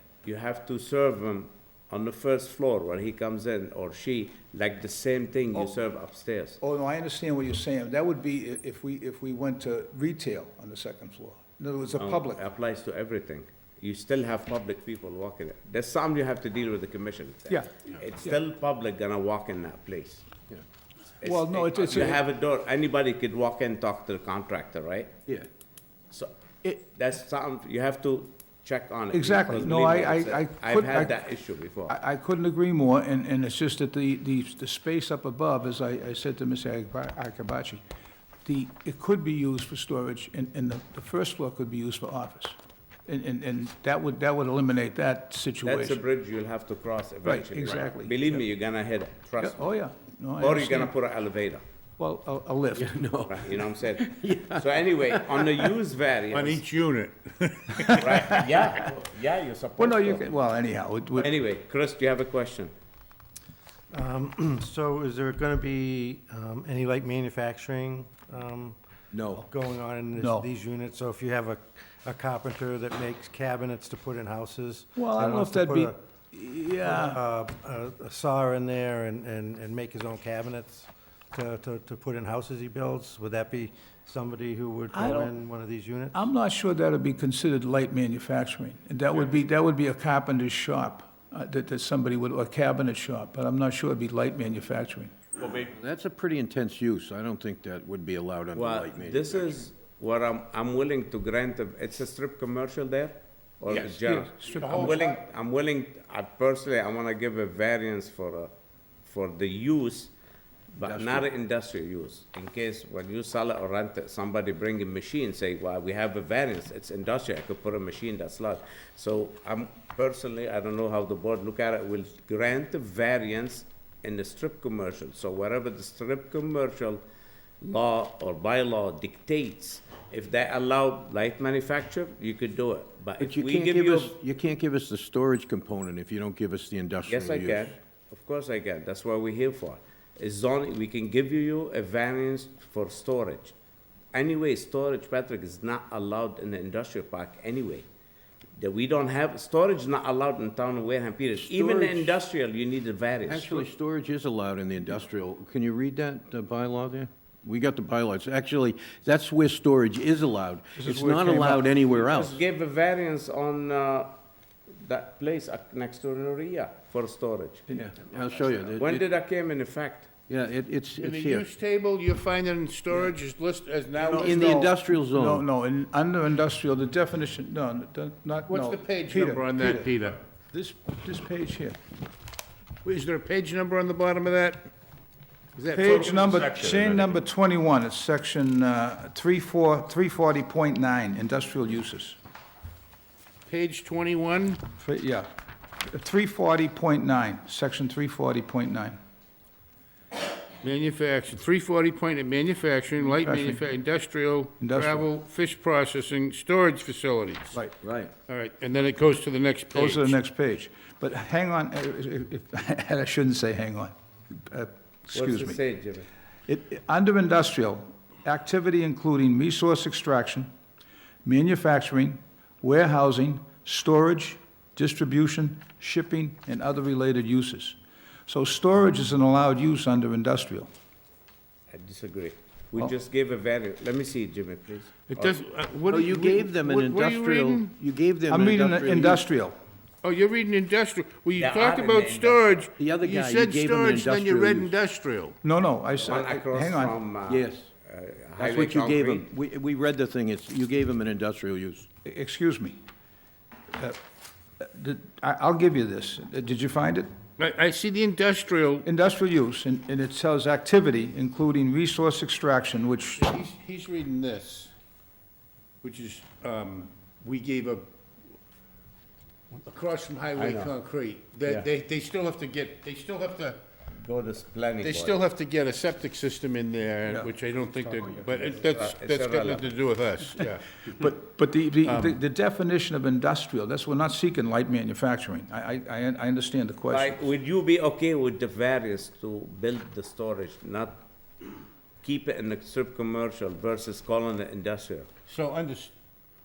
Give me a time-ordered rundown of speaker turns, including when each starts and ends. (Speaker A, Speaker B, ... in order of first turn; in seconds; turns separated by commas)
Speaker A: 0.2-6.6, Speaker B: 6.6-12.4, Speaker A: 12.0-20.2, Speaker A: 21.2-25.1, Speaker B: 21.2-22.2, Speaker A: 26.1-31.9, Speaker B: 29.1-31.2, Speaker B: 31.9-37.8, Speaker B: 38.5-42.6, Speaker B: 43.1-46.0, Speaker A: 45.6-49.6, Speaker B: 47.2-48.4, Speaker B: 49.4-50.9, Speaker A: 50.4-51.6, Speaker B: 52.0-53.0, Speaker C: 52.8-55.7, Speaker A: 53.2-56.6, Speaker D: 56.3-58.0, Speaker B: 57.9-58.4, Speaker A: 58.0-60.3, Speaker B: 59.8-61.3, Speaker A: 61.2-62.7, Speaker E: 63.9-76.0, Speaker C: 69.1-69.4, Speaker B: 70.2-70.5, Speaker B: 75.0-77.2, Speaker E: 76.8-86.2, Speaker B: 84.9-85.3, Speaker B: 86.1-95.1, Speaker A: 95.4-95.7, Speaker C: 95.7-99.6, Speaker A: 98.5-108.5, Speaker B: 103.7-105.0, Speaker D: 104.5-105.2, Speaker A: 109.0-110.1, Speaker A: 110.8-127.0, Speaker C: 110.8-111.3, Speaker A: 127.6-134.2, Speaker C: 133.2-137.7, Speaker A: 137.1-143.5, Speaker A: 144.1-147.9, Speaker A: 148.6-153.7, Speaker C: 151.4-152.1, Speaker C: 153.3-162.4, Speaker B: 160.8-161.7, Speaker A: 161.9-164.2, Speaker A: 164.8-167.7, Speaker C: 167.7-169.0, Speaker A: 168.2-170.1, Speaker C: 170.3-171.4, Speaker D: 171.0-174.6, Speaker B: 174.0-179.9, Speaker C: 174.1-175.4, Speaker D: 178.5-180.2, Speaker B: 180.5-181.8, Speaker D: 182.8-184.7, Speaker D: 185.6-186.5, Speaker B: 185.7-192.2, Speaker A: 185.8-187.2, Speaker D: 193.5-194.6, Speaker B: 194.8-195.3, Speaker B: 195.8-199.0, Speaker D: 200.6-207.6, Speaker B: 203.1-203.6, Speaker B: 204.6-205.1, Speaker C: 207.8-208.1, Speaker D: 208.3-210.2, Speaker B: 209.7-215.6, Speaker A: 215.1-216.1, Speaker B: 216.5-220.5, Speaker B: 221.2-230.7, Speaker A: 231.7-235.4, Speaker D: 235.1-237.7, Speaker C: 235.9-239.2, Speaker B: 238.3-239.6, Speaker D: 240.0-245.3, Speaker A: 241.4-242.7, Speaker C: 242.8-244.7, Speaker B: 245.4-247.0, Speaker A: 246.0-249.3, Speaker C: 247.3-247.7, Speaker C: 248.4-251.9, Speaker B: 252.1-252.8, Speaker B: 254.6-257.1, Speaker D: 257.4-258.9, Speaker B: 258.8-263.3, Speaker D: 263.2-264.7, Speaker D: 265.8-267.9, Speaker D: 269.5-273.6, Speaker A: 270.4-270.7, Speaker A: 274.0-275.2, Speaker D: 274.8-280.7, Speaker A: 278.6-279.7, Speaker B: 280.9-287.2, Speaker D: 281.9-282.2, Speaker A: 286.9-291.0, Speaker A: 292.0-295.1, Speaker D: 295.3-295.9